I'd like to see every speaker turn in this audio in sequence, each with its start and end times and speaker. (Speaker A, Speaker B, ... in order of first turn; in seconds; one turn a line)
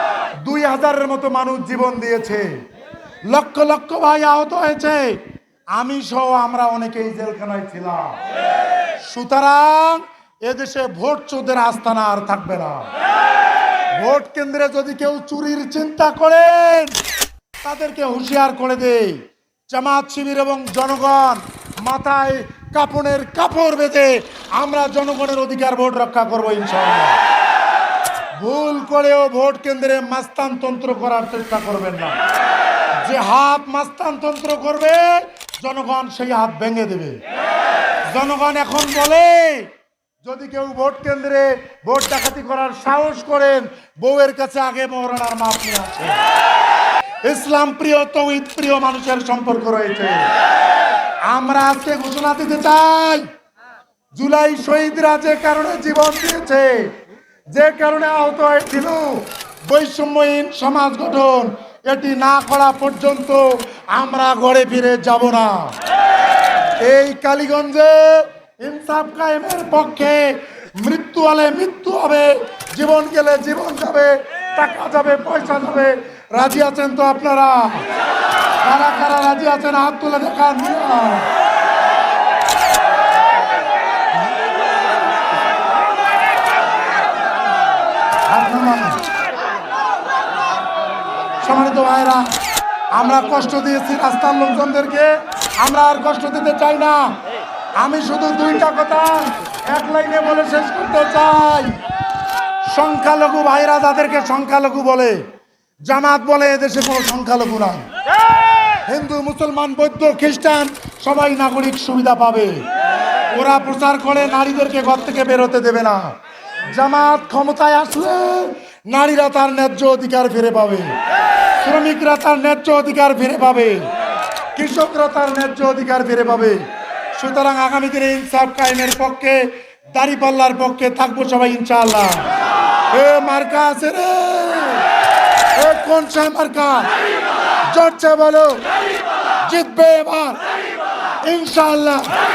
Speaker A: 0.4-2.5
Speaker A: 3.3-5.2
Speaker A: 5.7-8.2
Speaker A: 9.0-12.9
Speaker A: 13.9-16.9
Speaker A: 17.6-19.2
Speaker A: 19.7-27.2
Speaker A: 28.4-32.2
Speaker A: 33.0-37.2
Speaker A: 38.1-39.7
Speaker A: 40.2-46.2
Speaker A: 47.2-50.3
Speaker A: 51.3-53.3
Speaker A: 54.1-56.9
Speaker A: 57.5-65.7
Speaker A: 66.8-77.9
Speaker A: 78.6-81.3
Speaker A: 88.3-89.0
Speaker A: 91.4-92.2
Speaker A: 92.9-97.2
Speaker A: 97.8-101.8
Speaker A: 102.7-105.2
Speaker A: 105.9-107.9
Speaker A: 108.9-112.6
Speaker A: 113.3-116.0
Speaker A: 116.7-120.9
Speaker A: 121.6-123.9
Speaker A: 124.5-126.6
Speaker A: 127.1-132.2
Speaker A: 132.9-134.9
Speaker A: 135.6-136.9
Speaker A: 137.7-138.6
Speaker A: 139.5-140.4
Speaker A: 141.2-142.1